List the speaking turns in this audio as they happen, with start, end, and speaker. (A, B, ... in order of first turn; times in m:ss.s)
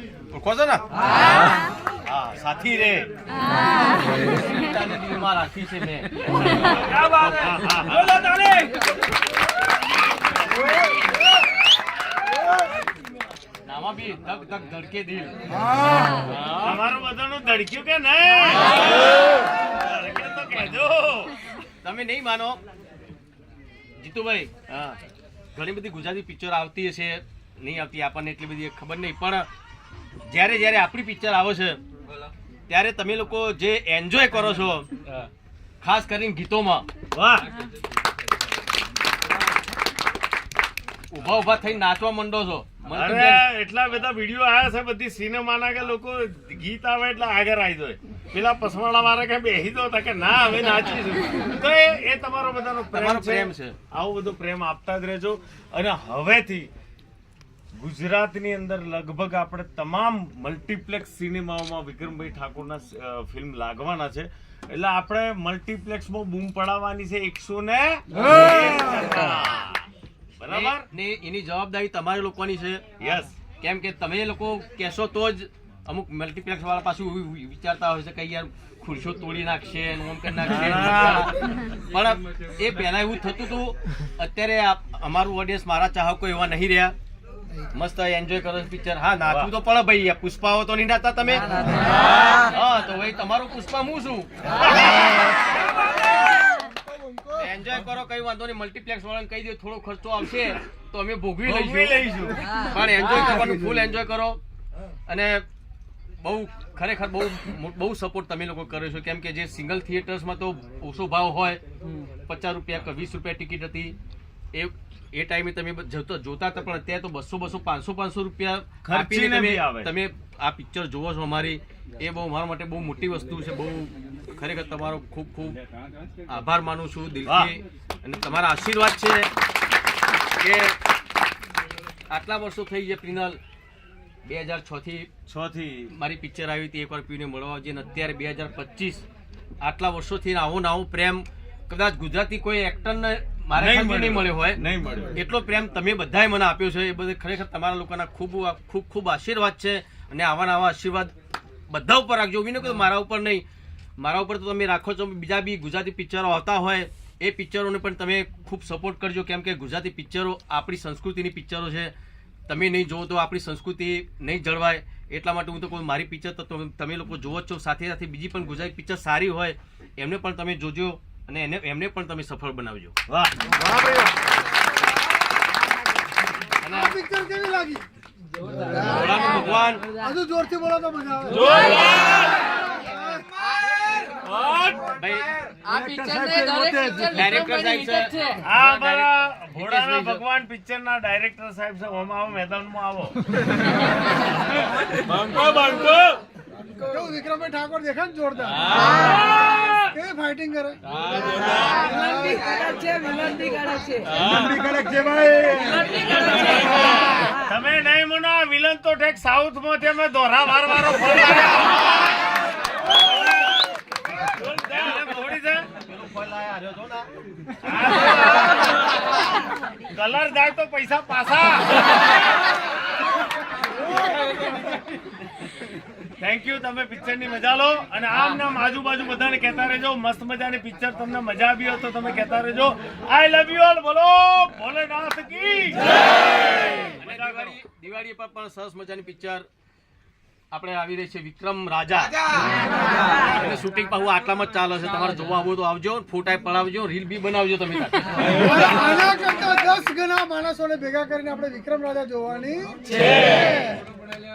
0:00.3-0:00.8 A
0:02.1-0:03.1 A
0:04.1-0:07.4 A
0:06.8-0:08.3 B
0:13.6-0:15.4 A
0:16.5-0:21.4 B
0:21.8-0:22.6 A
0:24.0-0:25.0 A
0:25.5-0:29.5 A
0:30.3-0:31.8 A
0:32.7-0:34.9 A
0:35.8-0:36.9 A
0:37.1-0:37.5 B
0:41.1-0:43.4 A
0:42.9-0:56.7 B
0:52.9-0:53.8 A
0:57.8-1:09.8 B
1:08.2-1:09.1 A
1:10.4-1:10.9 B
1:10.5-1:12.9 A
1:13.0-1:13.3 B
1:13.6-1:27.0 A
1:20.4-1:21.5 B
1:27.7-1:35.2 A
1:29.3-1:29.5 B
1:37.3-1:44.4 A
1:41.4-1:42.6 B
1:45.1-1:45.5 A
1:46.2-1:51.6 A
1:52.3-1:54.0 A
1:54.5-2:05.6 A
1:58.8-1:59.9 B
2:06.3-2:09.3 A
2:07.2-2:07.5 B
2:10.4-2:10.8 A
2:12.1-2:13.4 A
2:14.2-2:15.1 A
2:15.3-2:15.9 B
2:15.9-2:19.0 A
2:19.6-2:24.6 A
2:23.6-2:25.2 B
2:25.1-2:31.1 A
2:31.7-2:33.4 A
2:34.0-2:41.9 A
2:42.5-2:53.0 A
2:53.1-2:53.8 B
2:56.6-2:57.0 A
2:56.7-2:57.9 C
2:58.6-2:59.2 C
2:58.8-2:59.9 A
2:59.9-3:03.2 C
3:04.9-3:05.3 A
3:05.6-3:08.4 D
3:05.7-3:07.2 C
3:07.0-3:10.2 A
3:08.4-3:13.2 B
3:15.1-3:16.1 B
3:16.8-3:20.8 C
3:21.6-3:22.8 C
3:22.6-3:24.1 D
3:24.2-3:26.0 C
3:26.1-3:26.8 A
3:27.2-3:31.8 B
3:34.3-3:35.7 B
3:35.8-3:37.1 A
3:37.6-3:38.7 B
3:39.8-3:41.9 B
3:46.2-3:57.6 B
3:57.0-3:59.5 A
4:00.5-4:02.6 A
4:03.1-4:08.6 A
4:08.4-4:13.8 C